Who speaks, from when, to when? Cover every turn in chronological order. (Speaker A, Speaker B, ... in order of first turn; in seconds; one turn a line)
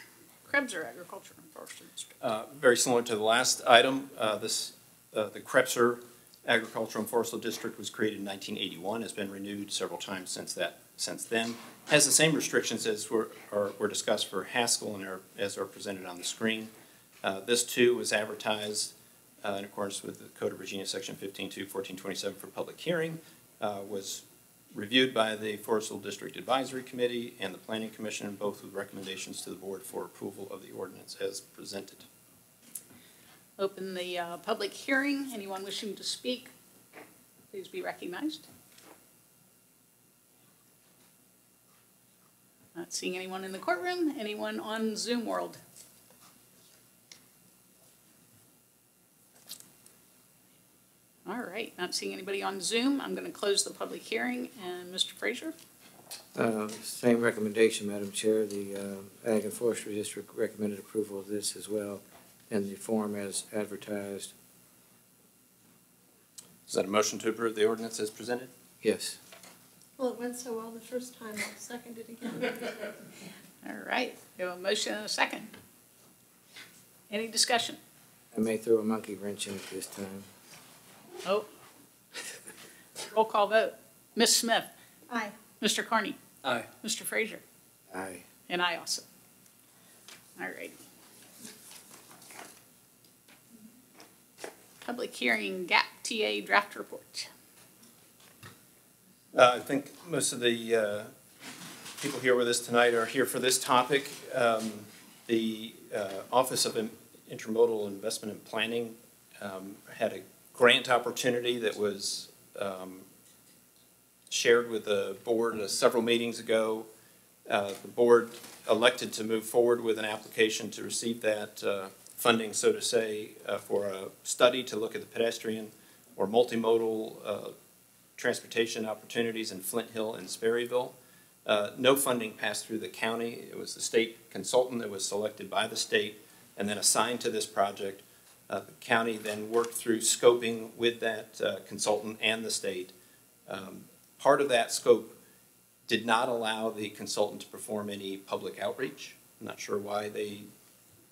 Speaker A: 0.5-2.1
Speaker B: 2.2-16.7
Speaker B: 17.2-32.1
Speaker A: 33.6-36.5
Speaker A: 37.5-38.5
Speaker A: 42.8-45.6
Speaker A: 51.3-55.5
Speaker C: 56.4-64.3
Speaker B: 66.7-68.5
Speaker C: 68.8-69.2
Speaker D: 70.0-72.8
Speaker A: 73.6-75.5
Speaker A: 77.1-77.8
Speaker C: 78.3-80.3
Speaker A: 83.1-84.7
Speaker A: 85.6-86.2
Speaker A: 86.8-87.4
Speaker C: 87.9-88.3
Speaker A: 88.5-89.0
Speaker A: 90.4-90.8
Speaker A: 94.8-97.3
Speaker B: 99.3-101.1
Speaker B: 102.0-113.1
Speaker B: 114.3-116.9
Speaker B: 117.5-127.5
Speaker B: 128.2-142.9
Speaker B: 143.5-145.2
Speaker B: 145.9-150.5